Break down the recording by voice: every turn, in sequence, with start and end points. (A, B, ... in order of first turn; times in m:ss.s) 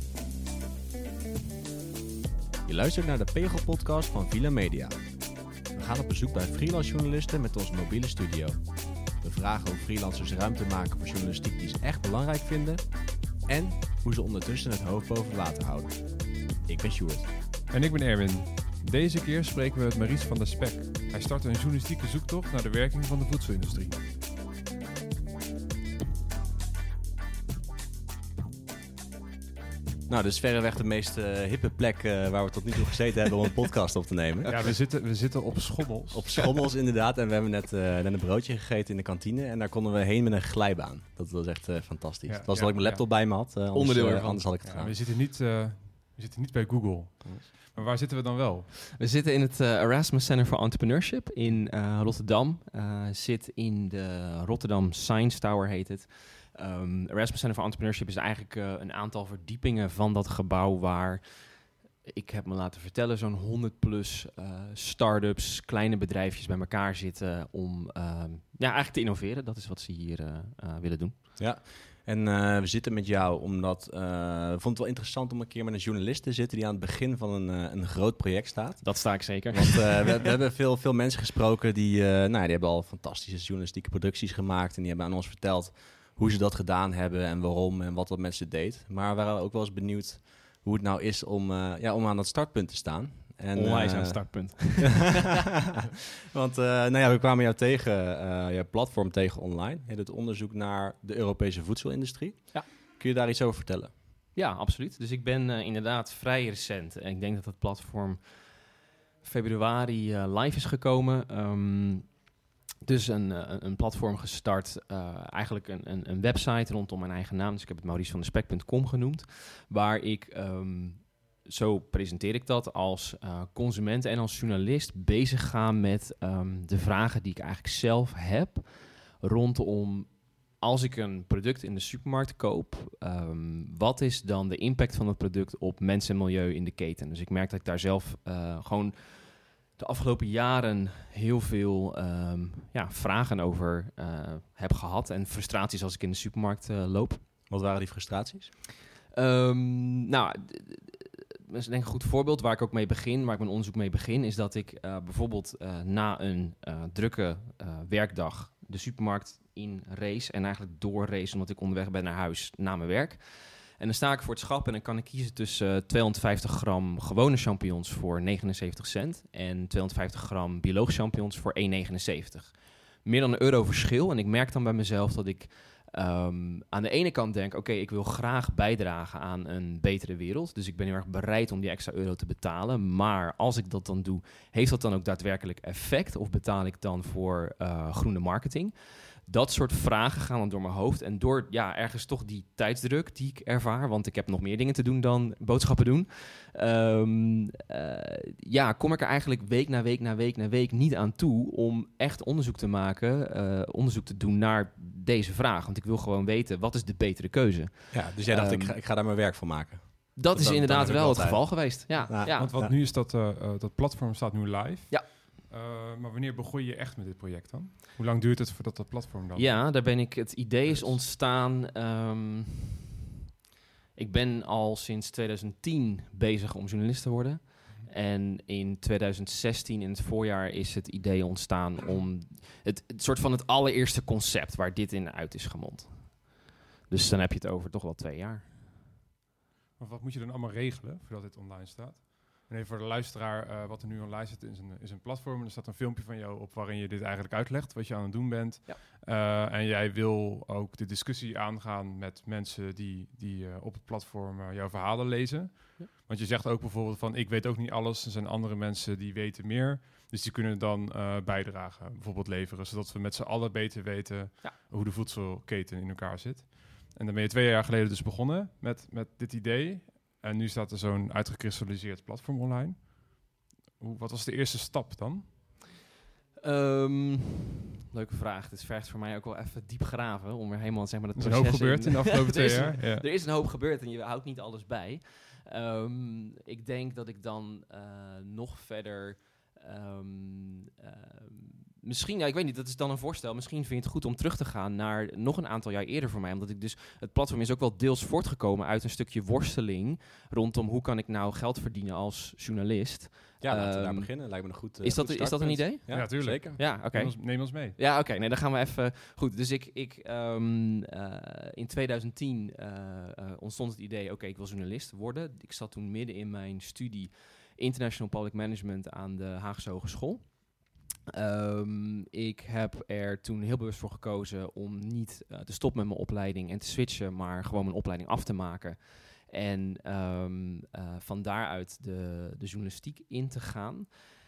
0:02.6-0:05.0 A
0:05.7-0:08.6 A
0:09.2-0:17.3 A
0:17.7-0:24.0 B
0:30.1-0:34.6 A
0:34.5-0:36.5 B
0:36.1-0:45.0 A
0:42.3-0:43.1 B
0:43.7-0:44.6 C
0:44.6-0:48.7 B
0:49.0-1:11.2 C
1:11.4-1:35.0 A
1:18.8-1:20.2 C
1:33.5-1:35.3 C
1:36.3-1:43.9 A
1:44.4-1:48.7 C
1:49.2-1:52.2 C
1:52.8-2:27.2 C
2:27.5-2:28.5 A
2:29.1-3:28.8 C
3:27.9-3:32.8 A
3:30.2-3:32.6 C
3:32.1-3:40.0 B
3:39.4-3:42.8 C
3:40.7-3:41.0 B
3:44.0-3:58.6 C
3:59.8-4:35.4 B
4:36.4-5:20.5 C
4:41.2-4:43.1 B
5:03.4-5:06.6 A
5:05.9-5:07.8 B
5:21.1-5:34.1 C